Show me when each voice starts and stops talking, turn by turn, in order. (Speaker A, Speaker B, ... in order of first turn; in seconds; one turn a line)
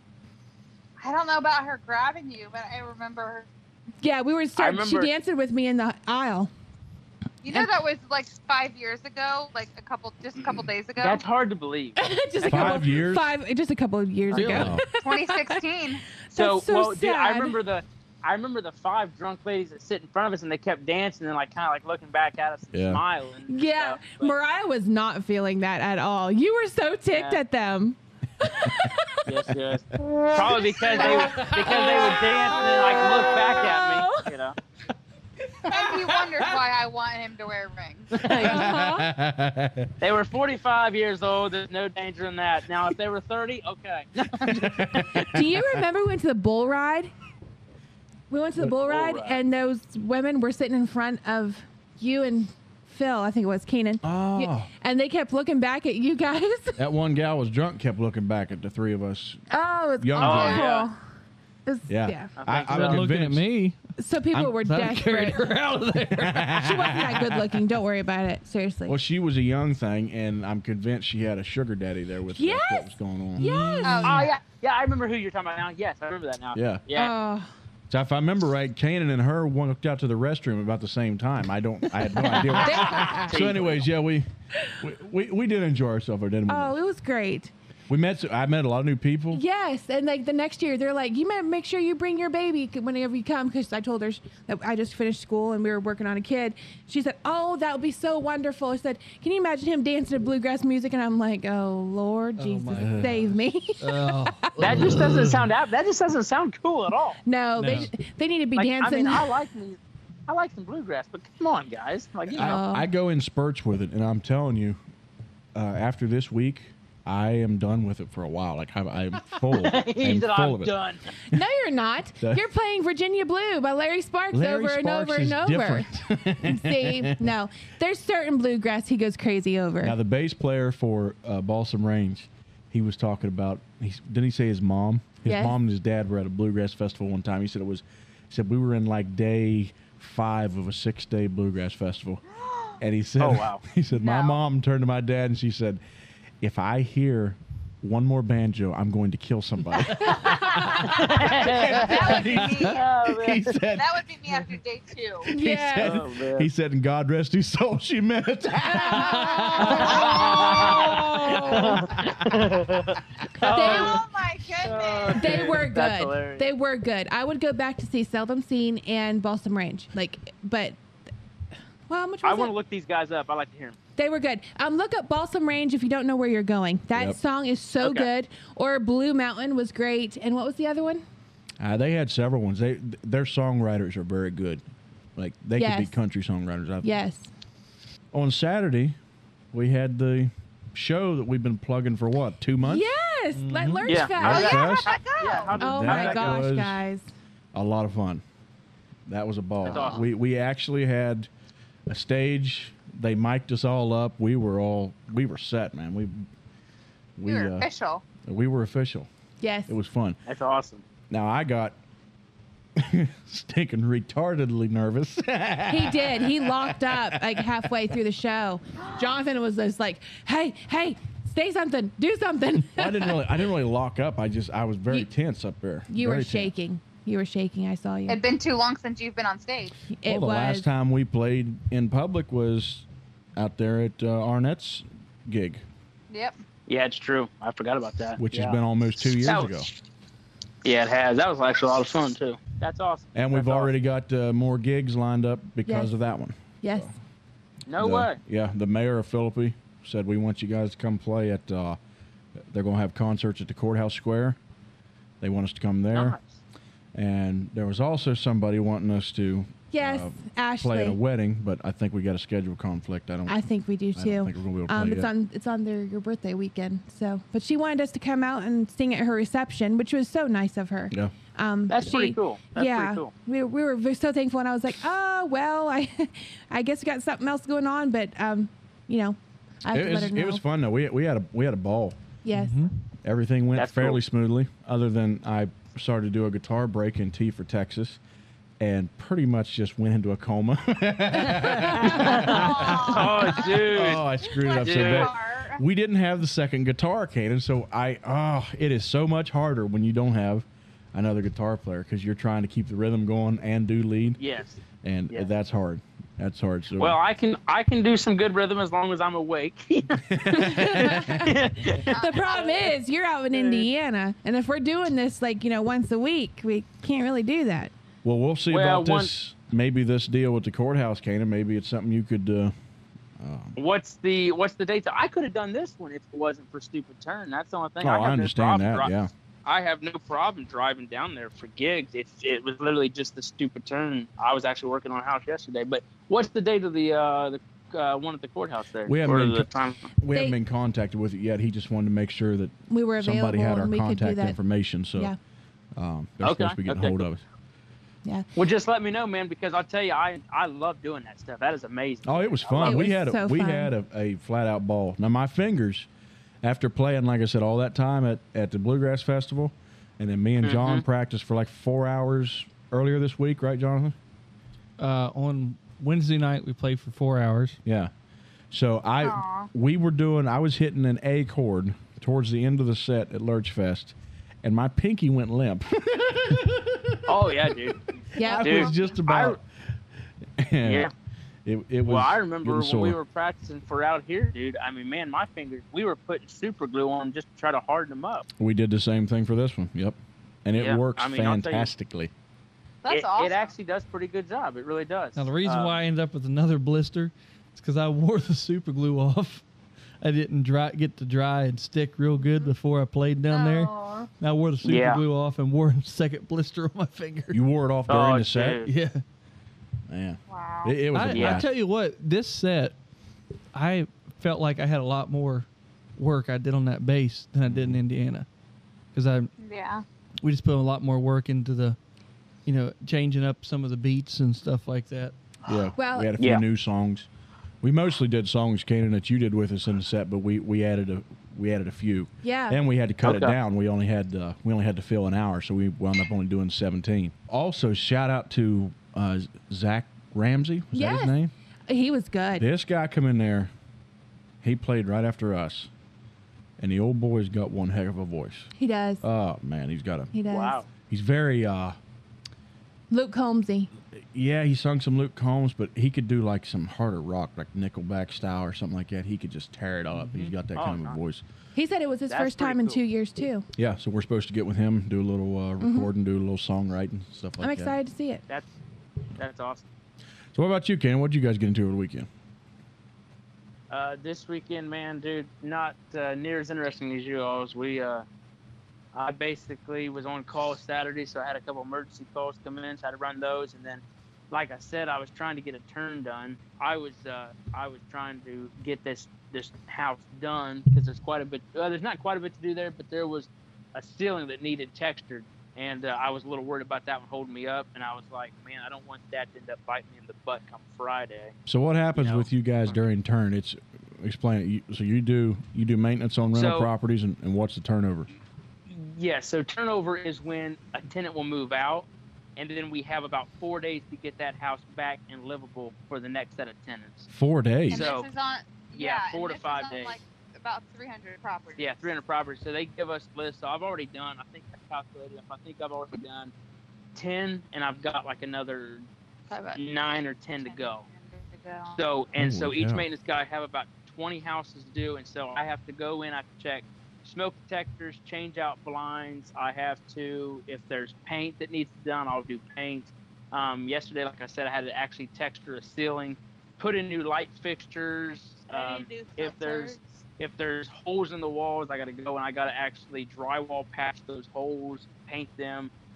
Speaker A: 1.0-3.5
Speaker B: 4.0-6.5
Speaker C: 4.6-5.1
Speaker A: 7.4-11.2
Speaker C: 11.0-13.1
Speaker B: 12.0-15.6
Speaker D: 12.4-13.3
Speaker E: 14.3-14.8
Speaker D: 14.4-14.8
Speaker A: 14.9-16.0
Speaker B: 16.3-17.6
Speaker C: 16.4-24.3
Speaker D: 22.7-23.0
Speaker B: 23.5-29.2
Speaker C: 27.1-27.4
Speaker C: 29.2-34.6
Speaker B: 30.1-34.3
Speaker A: 35.7-38.3
Speaker C: 38.2-38.5
Speaker B: 38.2-39.1
Speaker D: 38.2-39.9
Speaker C: 40.0-45.0
Speaker D: 44.4-45.8
Speaker B: 45.1-47.1
Speaker B: 48.3-56.8
Speaker C: 48.8-49.4
Speaker D: 54.0-54.7
Speaker D: 56.8-59.4
Speaker B: 59.5-61.0
Speaker D: 60.0-60.7
Speaker C: 60.2-60.9
Speaker A: 60.2-60.7
Speaker B: 61.7-62.3
Speaker D: 61.9-63.5
Speaker C: 62.4-63.0
Speaker E: 62.7-63.8
Speaker B: 64.0-65.5
Speaker E: 64.6-66.6
Speaker D: 66.1-67.4
Speaker B: 66.5-69.0
Speaker D: 68.9-73.5
Speaker B: 72.3-74.2
Speaker E: 73.4-74.1
Speaker A: 73.8-74.4
Speaker C: 74.0-77.1
Speaker D: 76.5-76.8
Speaker B: 76.9-77.5
Speaker D: 77.9-84.3
Speaker B: 82.2-83.3
Speaker C: 82.4-83.9
Speaker D: 84.8-86.8
Speaker B: 86.5-87.5
Speaker D: 87.9-89.4
Speaker B: 89.3-105.0
Speaker E: 102.4-105.5
Speaker D: 102.7-103.2
Speaker C: 104.6-107.2
Speaker B: 107.2-109.3
Speaker E: 107.6-107.9
Speaker C: 108.6-112.6
Speaker D: 112.3-114.8
Speaker B: 112.3-112.9
Speaker D: 115.5-120.7
Speaker C: 119.6-121.0
Speaker B: 121.3-130.0
Speaker D: 124.3-127.3
Speaker D: 129.8-142.2
Speaker B: 135.2-135.6
Speaker D: 142.8-145.8
Speaker C: 143.2-143.6
Speaker A: 144.0-144.4
Speaker D: 146.4-154.1
Speaker B: 150.1-150.7
Speaker A: 150.4-152.8
Speaker C: 150.8-153.6
Speaker A: 153.7-155.3
Speaker D: 155.2-162.8
Speaker B: 155.3-156.0
Speaker C: 155.8-156.5
Speaker B: 158.7-161.9
Speaker E: 159.2-159.8
Speaker C: 159.7-164.0
Speaker A: 159.8-160.2
Speaker B: 163.4-164.0
Speaker A: 163.5-165.6
Speaker C: 164.6-166.5
Speaker B: 165.1-170.8
Speaker B: 171.9-172.5
Speaker C: 172.2-173.8
Speaker B: 174.0-181.1
Speaker C: 177.8-178.1
Speaker D: 181.6-184.6
Speaker D: 185.2-186.9
Speaker B: 185.6-186.0
Speaker B: 186.8-187.3
Speaker D: 188.1-189.0
Speaker D: 189.5-192.9
Speaker B: 192.6-194.8
Speaker E: 193.3-194.0
Speaker C: 193.9-196.4
Speaker D: 194.2-196.8
Speaker A: 194.2-195.5
Speaker B: 195.6-197.1
Speaker D: 197.5-198.2
Speaker D: 199.1-201.3
Speaker C: 199.6-200.1
Speaker D: 201.9-206.3
Speaker D: 207.2-207.7
Speaker A: 207.3-208.0
Speaker D: 208.2-209.1
Speaker B: 209.4-209.8
Speaker D: 209.7-210.2
Speaker C: 210.3-210.8
Speaker D: 211.1-211.8
Speaker D: 212.8-217.5
Speaker B: 215.7-223.2
Speaker D: 222.6-226.5
Speaker B: 225.9-228.2
Speaker A: 228.1-229.8
Speaker B: 229.9-230.7
Speaker D: 230.1-235.7
Speaker A: 236.1-236.4
Speaker C: 236.7-238.6
Speaker D: 238.2-239.7
Speaker C: 239.2-239.7
Speaker C: 240.6-243.7
Speaker D: 243.2-246.9
Speaker B: 245.7-245.9
Speaker B: 246.6-246.9
Speaker C: 247.7-248.2
Speaker D: 247.8-251.8
Speaker D: 252.5-254.4
Speaker D: 255.2-256.2
Speaker C: 255.9-256.3
Speaker D: 256.9-263.4
Speaker B: 259.7-261.0
Speaker B: 263.3-280.4
Speaker D: 264.0-265.1
Speaker C: 271.7-273.1
Speaker D: 279.7-282.0
Speaker B: 282.2-282.6
Speaker E: 282.3-282.7
Speaker D: 283.0-288.0
Speaker C: 283.6-284.0
Speaker D: 288.6-304.2
Speaker C: 291.2-294.0
Speaker A: 292.2-295.6
Speaker C: 294.6-295.1
Speaker C: 304.2-304.6
Speaker D: 304.8-307.0
Speaker C: 306.8-312.4
Speaker D: 310.0-311.4
Speaker B: 310.3-311.3
Speaker A: 311.8-312.7
Speaker B: 311.9-317.7
Speaker C: 313.3-313.7
Speaker D: 318.0-322.5
Speaker C: 318.5-319.1
Speaker D: 323.2-323.6
Speaker C: 323.6-328.9
Speaker D: 327.8-329.1
Speaker C: 329.4-339.9
Speaker D: 338.9-345.1
Speaker B: 340.1-340.4
Speaker B: 342.7-344.4
Speaker D: 345.8-347.2
Speaker C: 346.2-347.1
Speaker C: 348.4-352.9
Speaker D: 352.1-355.9
Speaker B: 352.6-353.7
Speaker D: 356.4-363.9
Speaker C: 360.4-360.8
Speaker E: 364.8-367.6
Speaker D: 367.6-367.9
Speaker D: 368.5-379.4
Speaker A: 369.0-369.5
Speaker C: 377.1-379.4
Speaker B: 378.2-378.7
Speaker D: 380.4-380.9
Speaker C: 380.6-380.9
Speaker D: 381.4-383.0
Speaker C: 381.9-388.3
Speaker D: 388.4-392.1
Speaker C: 390.6-391.7
Speaker A: 392.8-393.5
Speaker C: 392.9-395.8
Speaker E: 395.2-399.4
Speaker E: 400.0-407.4
Speaker A: 403.3-404.1
Speaker C: 404.6-405.0
Speaker D: 407.3-408.6
Speaker C: 407.9-408.7
Speaker E: 408.6-409.0
Speaker D: 409.9-411.5
Speaker A: 410.3-410.8
Speaker E: 410.9-412.8
Speaker C: 411.1-411.4
Speaker E: 413.5-418.3
Speaker D: 417.5-417.8
Speaker E: 418.9-419.3
Speaker A: 419.4-419.8
Speaker E: 420.2-421.8
Speaker E: 422.5-425.1
Speaker D: 425.5-427.1
Speaker B: 425.8-426.2
Speaker D: 427.6-441.3
Speaker B: 432.2-432.6
Speaker C: 433.0-433.4
Speaker B: 440.7-441.2
Speaker B: 441.7-442.5
Speaker D: 442.4-443.5
Speaker D: 444.4-445.7
Speaker D: 446.6-450.1
Speaker B: 448.6-449.0
Speaker B: 450.1-450.6
Speaker C: 450.3-450.7
Speaker D: 450.9-451.8
Speaker B: 452.9-453.7
Speaker D: 453.9-461.2
Speaker E: 459.9-460.4
Speaker C: 460.5-461.0
Speaker B: 461.6-463.4
Speaker C: 462.1-462.8
Speaker D: 463.6-467.8
Speaker B: 465.6-465.9
Speaker B: 467.4-468.2
Speaker C: 469.2-469.6
Speaker D: 470.3-472.1
Speaker C: 473.7-478.1
Speaker C: 478.9-501.3
Speaker D: 501.5-508.1
Speaker C: 501.9-502.7
Speaker C: 506.3-506.7
Speaker C: 508.7-517.1
Speaker D: 517.1-517.9
Speaker A: 517.7-521.9
Speaker C: 517.7-518.1
Speaker C: 518.7-520.0
Speaker C: 521.6-526.3
Speaker C: 527.0-528.9
Speaker A: 529.3-529.6
Speaker C: 529.5-530.9
Speaker A: 530.5-531.8
Speaker C: 531.7-555.7
Speaker D: 532.2-532.9
Speaker A: 548.5-550.0